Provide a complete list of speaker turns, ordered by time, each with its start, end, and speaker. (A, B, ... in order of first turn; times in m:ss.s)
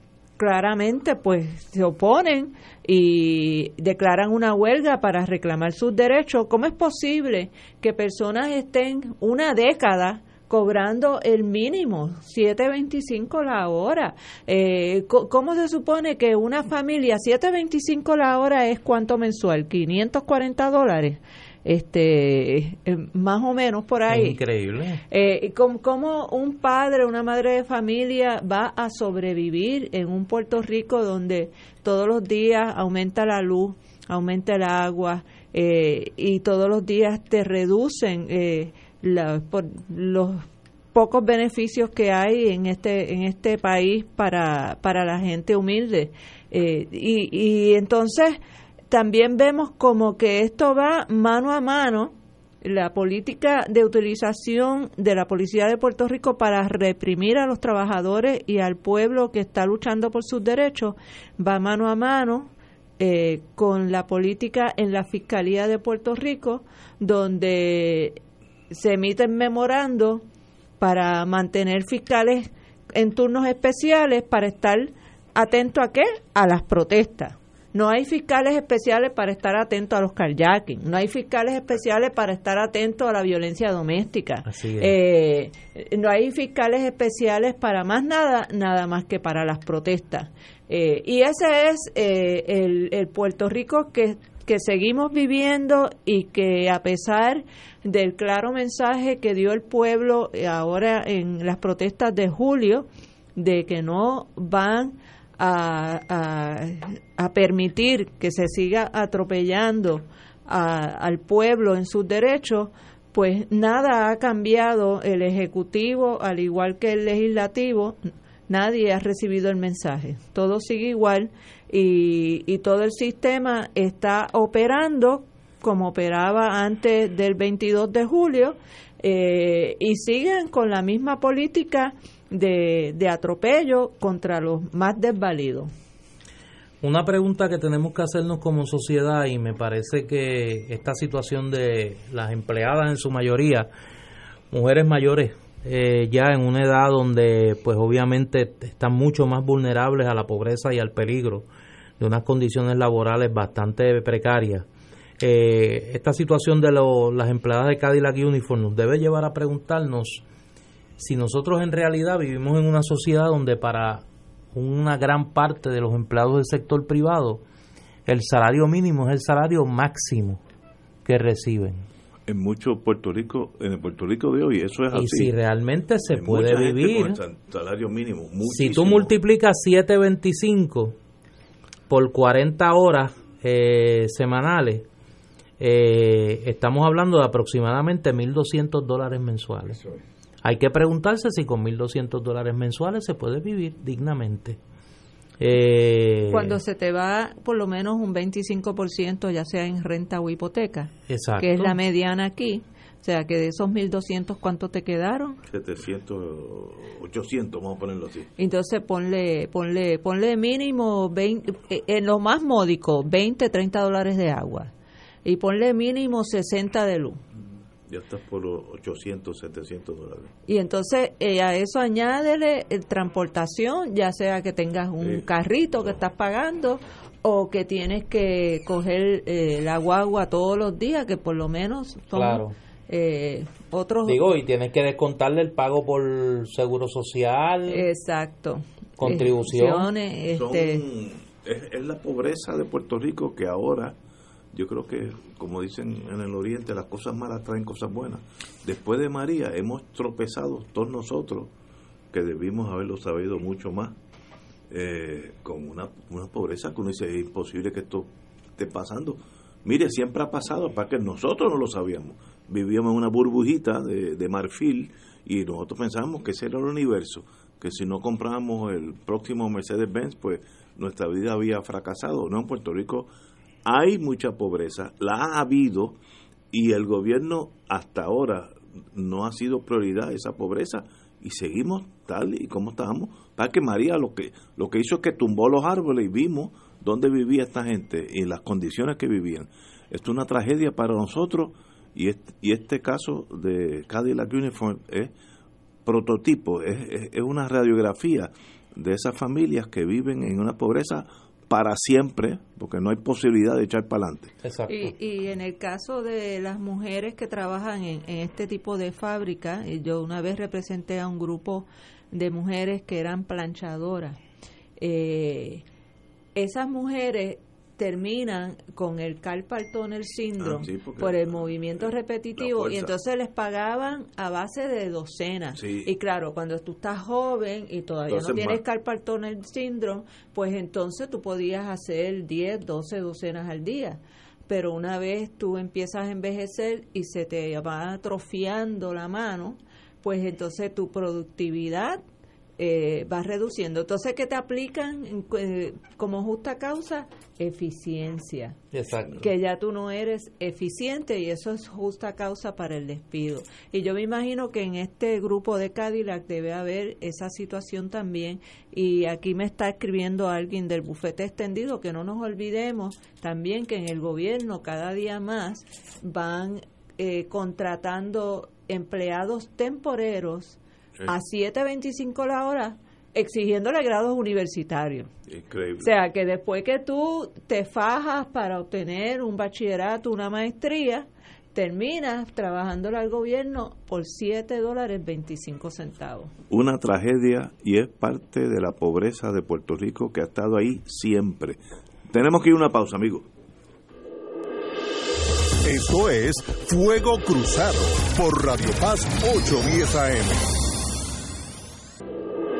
0:00.4-0:24.4 A
0:24.1-0:25.0 B
0:25.1-0:48.4 A
0:48.9-1:08.2 A
1:08.7-1:10.2 A
1:10.8-2:15.7 A
1:24.4-1:24.9 B
2:16.8-2:23.7 B
2:24.5-2:31.4 B
2:32.0-2:34.6 B
2:35.2-2:40.2 B
2:41.0-2:47.4 B
2:48.0-2:50.4 B
2:51.0-2:51.8 B
2:52.3-2:55.3 C
2:54.9-2:57.2 B
2:56.1-2:59.1 C
2:58.4-3:01.0 B
3:01.9-3:04.8 B
3:05.6-3:09.8 B
3:10.4-3:14.6 B
3:15.4-3:16.6 B
3:16.3-3:25.4 A
3:21.1-3:21.8 B
3:25.5-3:28.3 C
3:28.4-3:34.7 A
3:35.2-3:37.2 A
3:37.9-3:40.3 C
3:40.5-3:54.2 A
3:52.1-3:52.5 B
3:54.0-3:57.9 B
3:57.7-4:00.8 A
3:59.0-3:59.9 B
4:00.3-4:04.0 C
4:04.5-4:11.5 C
4:12.1-4:14.0 C
4:14.7-4:33.1 C
4:33.6-4:36.0 C
4:36.5-4:55.1 C
4:55.8-5:04.3 C
5:04.4-5:04.9 B
5:04.7-5:14.2 A
5:14.8-5:15.6 A
5:16.4-5:42.0 A
5:20.4-5:21.3 C
5:22.4-5:22.9 C
5:25.6-5:25.9 C
5:28.1-5:28.6 C
5:42.6-5:48.6 A
5:48.7-5:49.2 B
5:49.2-6:15.1 A
6:15.3-6:15.9 C
6:15.8-6:26.3 A
6:26.5-6:31.6 C
6:32.1-6:33.3 C
6:35.6-6:40.5 D